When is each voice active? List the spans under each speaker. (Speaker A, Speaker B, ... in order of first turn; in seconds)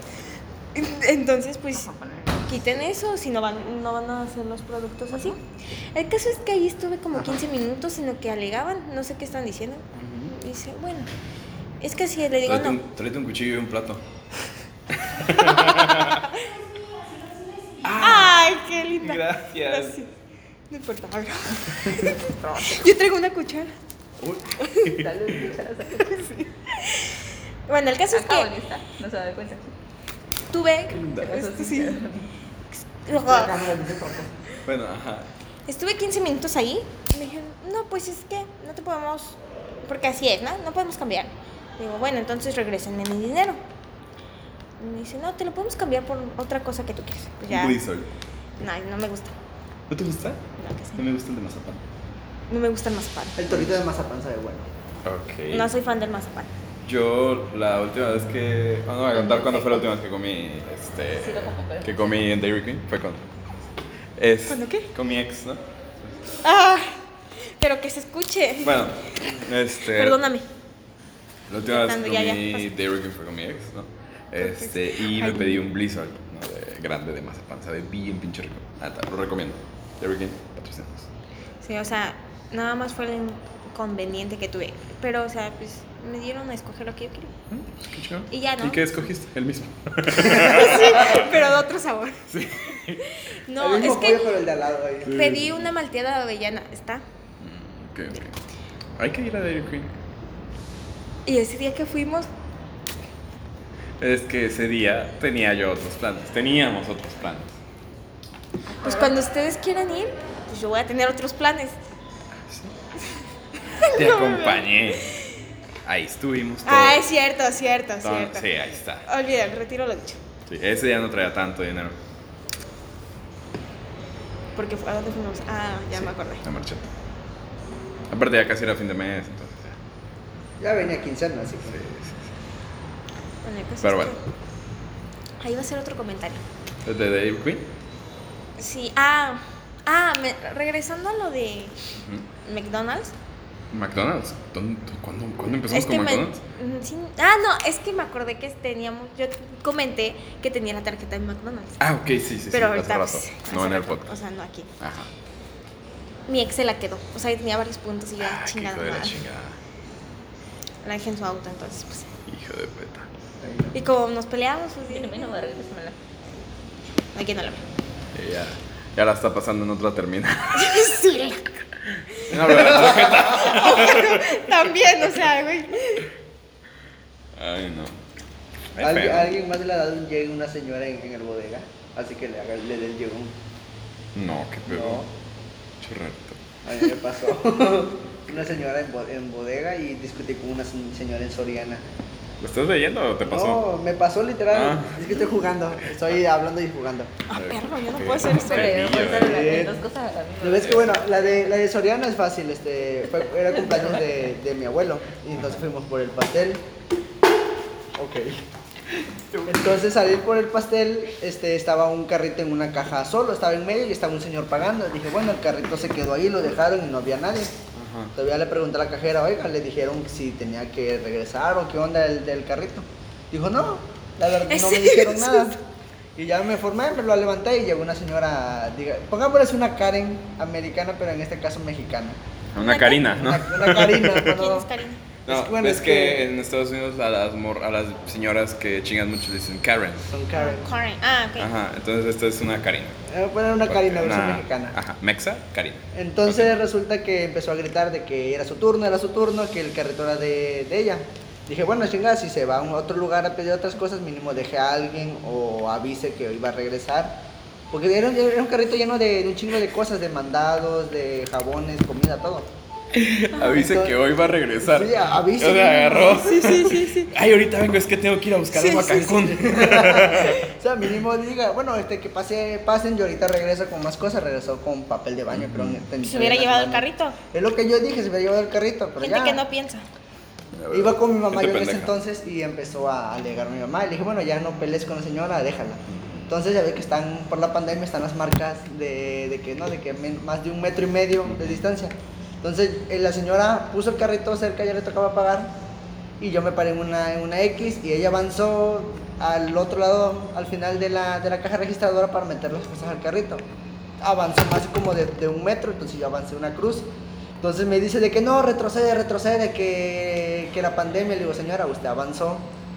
Speaker A: 0.7-5.4, 5.9-11.1, 11.8-12.8, 15.7-16.4, 18.0-20.1, 20.7-23.7, 24.6-24.9, 26.2-28.5, 30.5-32.0, 32.8-33.6, 35.7-43.6, 44.8-47.8, 48.6-49.3, 50.6-51.0, 52.5-53.6, 55.5-56.5, 64.5-64.9, 66.4-67.0, 67.6-68.9, 69.9-70.5, 71.7-72.7, 74.4-75.6, 81.6-87.3, 88.3-88.9, 90.2-92.2, 93.0-94.3, 95.0-97.0, 101.2-102.3, 108.8-111.8, 113.7-115.3, 116.6-118.5, 119.0-120.2, 124.5-126.4, 133.4-134.2, 135.4-136.4, 138.6-141.7, 142.4-143.1, 145.7-151.8, 152.5-154.7, 156.3-159.2, 160.8-162.1, 163.7-165.4, 167.1-167.6, 170.5-171.5, 172.2-176.1, 197.3-198.9, 224.5-225.6, 232.6-233.1, 234.2-235.0, 240.3-241.5, 263.3-263.6, 266.1-267.1, 268.5-269.1, 276.0-277.2, 279.0-279.8
Speaker B: 9.9-10.3, 12.4-14.0, 14.9-16.3, 17.8-18.4, 19.0-20.0, 21.9-22.1, 24.2-25.4, 30.9-31.5, 34.6-35.3, 47.5-48.1, 49.9-50.4, 51.0-51.8, 55.0-55.7, 56.8-63.3, 64.2-66.3, 68.6-70.2, 71.5-81.1, 87.5-91.4, 92.3-93.1, 95.0-95.6, 97.4-98.3, 99.0-99.9, 104.0-107.5, 112.5-112.7, 113.8-115.1, 115.8-117.0, 118.0-119.1, 120.5-122.0, 125.9-126.9, 128.1-129.8, 131.7-132.2, 133.8-134.2, 136.8-137.7, 141.9-142.3, 143.7-146.4, 151.8-154.1, 154.8-155.1, 158.2-159.6, 162.3-163.1, 168.1-170.8, 172.3-174.7, 177.3-178.0, 178.7-179.3, 184.1-185.1, 185.8-186.4, 192.4-193.6, 194.5-194.9, 197.3-199.7, 209.3-209.8, 217.7-218.1, 232.5-234.4, 235.2-240.1, 241.4-243.0, 243.7-246.5, 262.9-270.4, 275.3-275.8, 280.5-281.9, 285.9-286.2, 291.3-291.6
Speaker C: 24.9-26.4, 28.1-29.7, 31.2-32.3, 61.2-61.9, 108.7-109.2, 164.9-166.0, 198.3-201.0, 203.5-204.1
Speaker D: 33.1-34.4, 53.4-54.7, 93.6-95.4, 130.6-131.8, 163.4-163.7, 178.8-183.3, 184.7-185.1, 186.6-191.8, 193.2-197.1, 199.1-199.8, 200.4-206.6, 207.9-208.4, 209.4-217.5, 218.1-225.6, 226.2-232.2, 233.1-234.7, 235.3-236.2, 240.1-240.7, 243.1-244.8, 245.9-262.5, 263.4-264.0, 264.6-266.3, 268.9-279.4, 280.7-295.5, 296.2-303.4, 304.0-306.9, 307.4-312.5